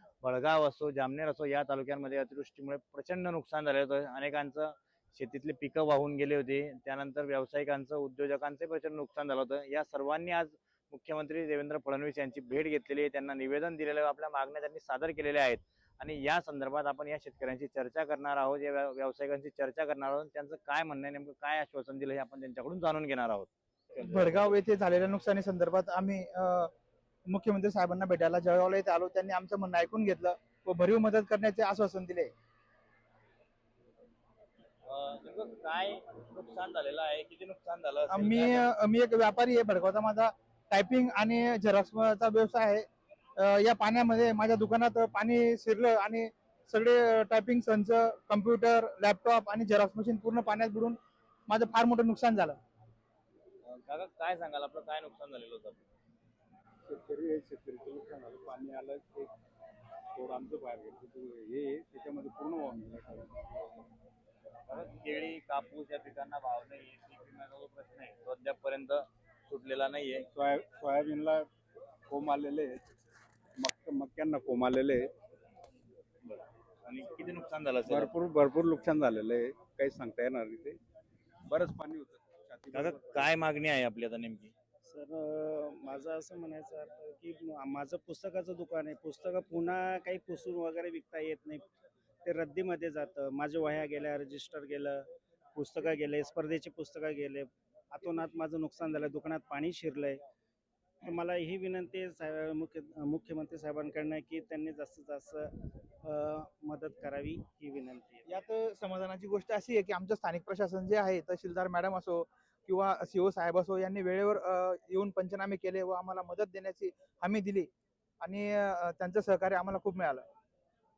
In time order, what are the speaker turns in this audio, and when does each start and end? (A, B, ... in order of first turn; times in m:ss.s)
0:00.2-0:24.3 A
0:24.0-0:26.7 B
0:27.3-0:32.3 B
0:34.9-0:38.7 A
0:38.1-0:51.0 B
0:51.5-0:52.6 B
0:53.7-0:55.8 A
0:56.9-0:59.3 C
1:00.2-1:03.8 C
1:04.7-1:10.3 A
1:10.3-1:11.5 C
1:12.1-1:12.8 C
1:13.6-1:15.1 C
1:16.3-1:18.1 A
1:17.8-1:20.8 C
1:21.5-1:23.3 C
1:22.7-1:24.5 A
1:24.8-1:31.7 D
1:32.2-1:40.2 D
1:41.0-1:48.3 D
1:48.3-1:57.7 B
1:58.2-2:00.2 B